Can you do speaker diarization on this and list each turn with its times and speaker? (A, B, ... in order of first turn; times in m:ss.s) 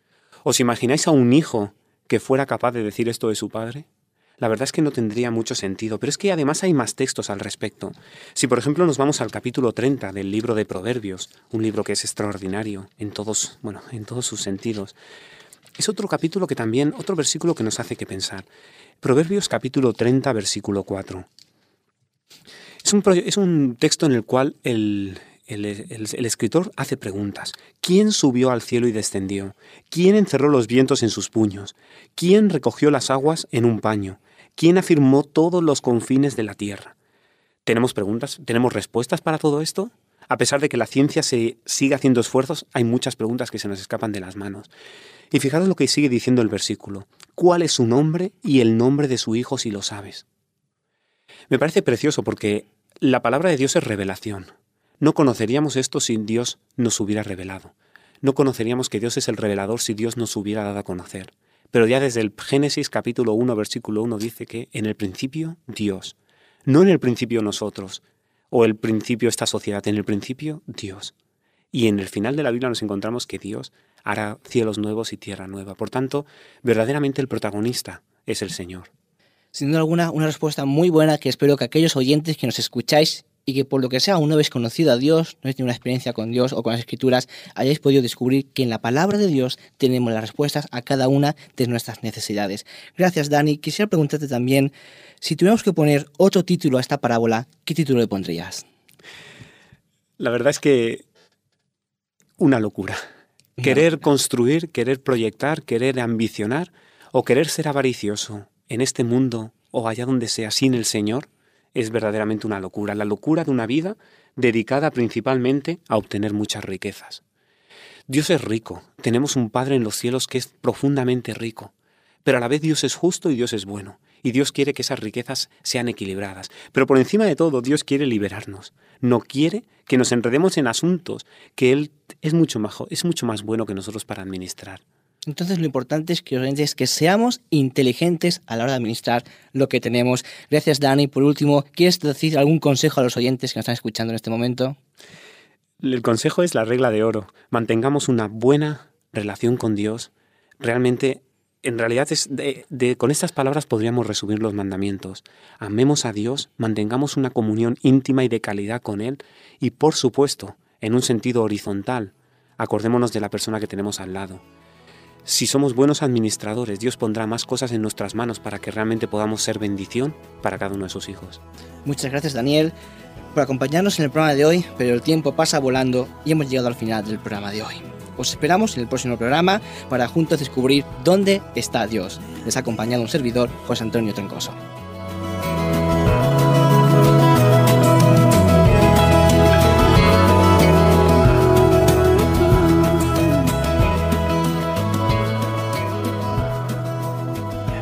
0:00.4-0:03.9 A
0:04.4-0:15.0 A
0:15.8-0:18.5 A
0:19.0-0:21.3 A
0:22.8-0:36.9 A
0:37.6-0:44.7 A
0:45.3-0:50.3 A
0:51.5-1:11.1 A
1:11.7-1:18.9 A
1:19.5-1:38.6 B
1:40.2-1:41.0 A
1:42.4-1:43.0 A
1:43.6-1:43.9 B
1:43.6-1:57.2 A
1:58.1-2:01.7 A
2:02.2-2:14.8 A
2:15.3-2:24.8 B
2:25.8-2:44.4 A
2:45.3-2:51.4 A
2:51.8-2:52.7 B
2:53.4-3:04.6 B